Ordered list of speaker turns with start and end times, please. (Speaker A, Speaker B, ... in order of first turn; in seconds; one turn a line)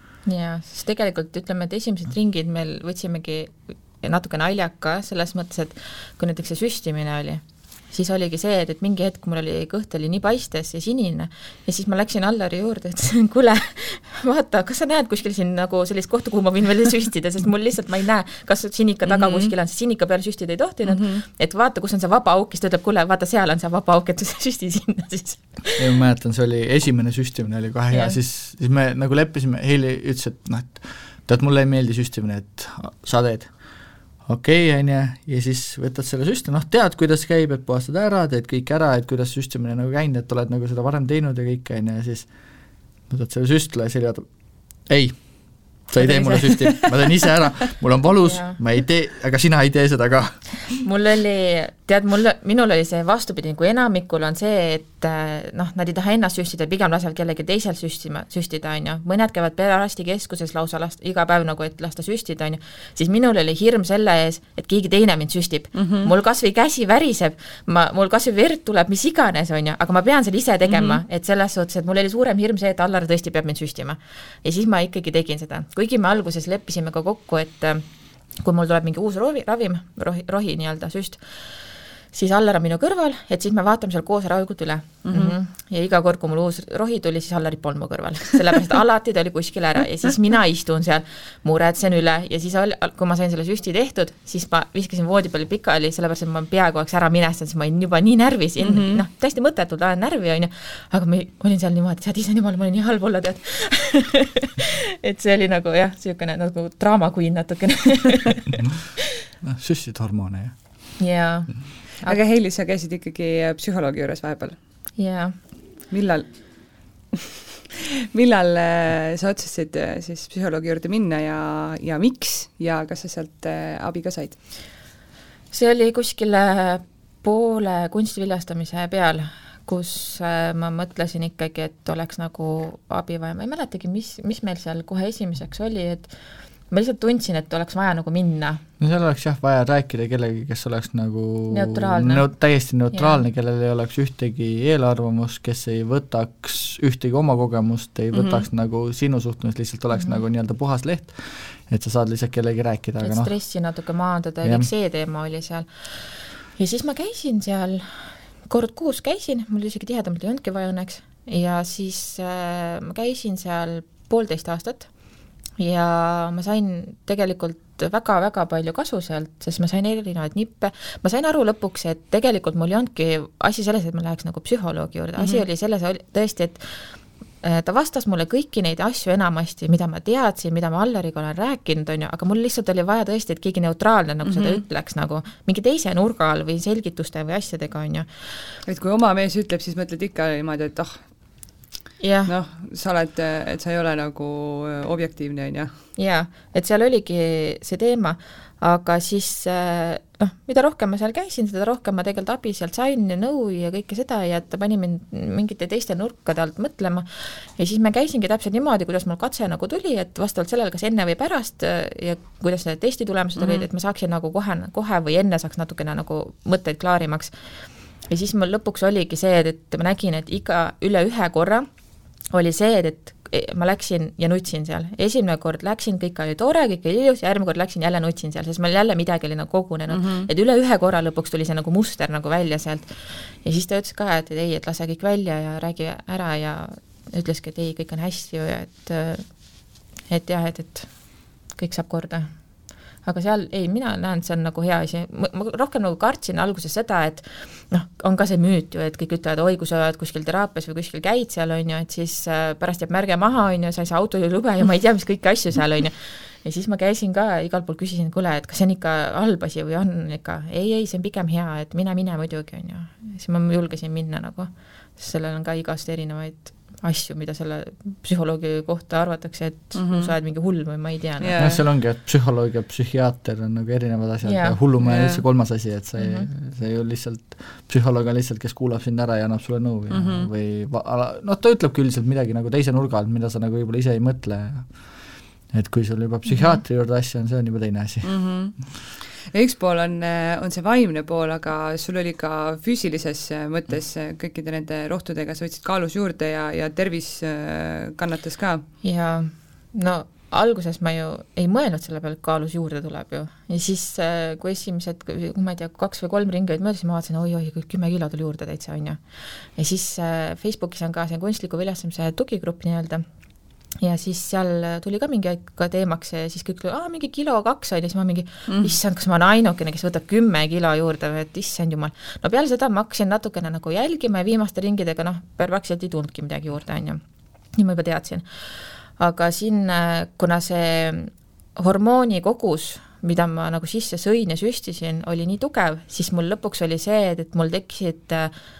Speaker A: 0.2-25.9
Speaker B: 19.1-19.5
Speaker B: 20.9-21.2
Speaker C: 25.8-33.5
Speaker A: 27.9-28.2
Speaker C: 34.2-42.3
Speaker C: 43.1-44.2
Speaker C: 44.9-45.2
Speaker C: 45.9-50.4
Speaker A: 46.0-46.5
Speaker A: 48.2-48.6
Speaker A: 50.7-77.8
Speaker B: 65.7-66.1
Speaker B: 70.6-71.0
Speaker A: 78.4-81.2
Speaker A: 82.1-108.6
Speaker B: 85.0-85.3
Speaker B: 98.6-99.0
Speaker C: 109.4-110.5
Speaker A: 111.0-112.2
Speaker B: 112.0-114.6
Speaker A: 115.0-115.3
Speaker B: 115.9-116.3
Speaker B: 117.8-124.4
Speaker A: 125.5-136.1
Speaker A: 136.7-138.6
Speaker C: 138.8-153.3
Speaker A: 141.5-142.3
Speaker A: 142.9-143.2
Speaker B: 148.1-148.4
Speaker A: 153.0-155.7
Speaker C: 154.4-154.7
Speaker A: 156.6-157.9
Speaker A: 158.5-164.9
Speaker A: 165.6-176.6
Speaker B: 175.2-175.4
Speaker A: 177.4-188.1
Speaker B: 184.2-184.6
Speaker B: 188.7-191.0
Speaker A: 192.0-192.3
Speaker B: 192.2-195.7
Speaker A: 196.0-217.3
Speaker B: 213.4-213.7
Speaker A: 218.1-221.7
Speaker A: 222.3-239.2
Speaker B: 229.9-230.3
Speaker A: 240.1-240.9
Speaker A: 241.5-242.3
Speaker A: 243.0-271.3
Speaker B: 269.7-270.1
Speaker B: 271.2-271.6
Speaker C: 271.4-284.8
Speaker A: 274.2-274.6
Speaker B: 274.8-275.2
Speaker A: 276.0-276.3
Speaker B: 279.9-280.3
Speaker C: 285.5-288.1
Speaker B: 288.0-288.6
Speaker B: 289.3-298.6
Speaker A: 298.8-309.0
Speaker A: 309.6-313.0
Speaker A: 313.8-327.0
Speaker B: 318.5-318.8
Speaker A: 327.5-328.2
Speaker A: 329.0-338.3